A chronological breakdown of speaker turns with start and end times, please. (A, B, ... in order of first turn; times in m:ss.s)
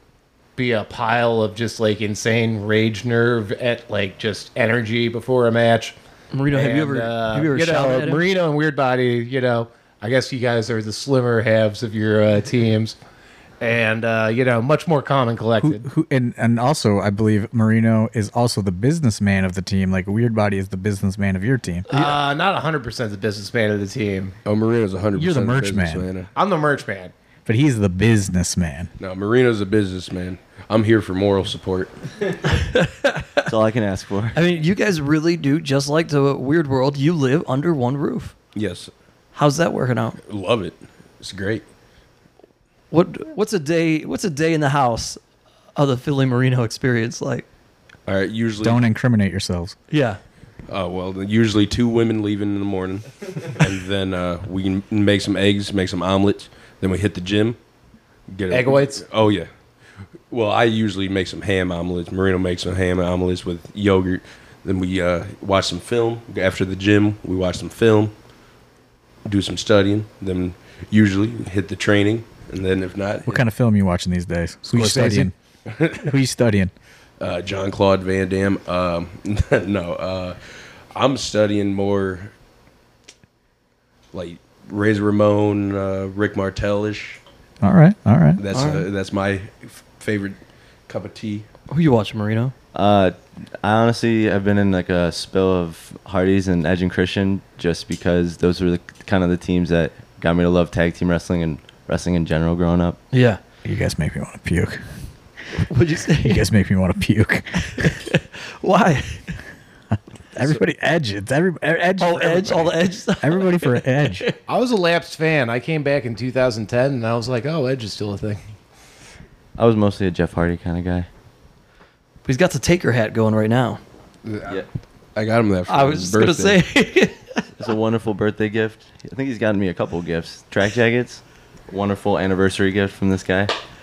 0:00.6-0:06.0 A
0:06.3-0:08.2 B
0:06.5-0:13.0 A
0:13.6-0:15.8 A
0:15.6-0:21.9 C
0:21.9-0:22.2 B
0:21.9-0:24.4 A
0:24.4-0:26.3 D
0:25.1-0:26.1 C
0:26.3-0:27.1 A
0:27.4-0:28.9 C
0:29.0-0:32.0 D
0:32.5-0:33.5 B
0:33.4-0:34.4 E
0:34.3-0:38.3 B
0:38.5-0:38.9 D
0:39.3-0:40.2 B
0:40.3-0:41.6 D
0:42.9-0:45.2 B
0:45.7-0:47.5 B
0:48.1-0:48.8 D
0:48.6-0:49.8 C
0:49.9-0:50.2 B
0:50.7-0:57.6 D
0:58.3-0:59.5 D
0:58.5-0:59.0 A
1:00.3-1:08.1 D
1:09.2-1:13.4 D
1:13.2-1:15.3 C
1:14.6-1:15.3 A
1:15.7-1:16.1 D
1:15.9-1:16.7 C
1:17.2-1:20.4 D
1:20.9-1:22.3 D
1:24.1-1:27.2 D
1:27.6-1:28.4 C
1:28.4-1:31.4 D
1:28.5-1:28.8 B
1:31.7-1:32.5 B
1:32.7-1:43.0 E
1:43.1-1:43.4 B
1:43.6-1:44.8 C
1:45.5-1:46.4 B
1:46.2-1:47.9 C
1:47.7-1:49.3 B
1:50.4-1:54.2 C
1:52.0-1:54.4 B
1:54.5-1:58.4 A
1:59.6-2:01.1 E
2:02.2-2:03.8 B
2:04.2-2:04.6 D
2:05.1-2:06.6 D
2:05.7-2:07.5 B
2:07.6-2:13.5 E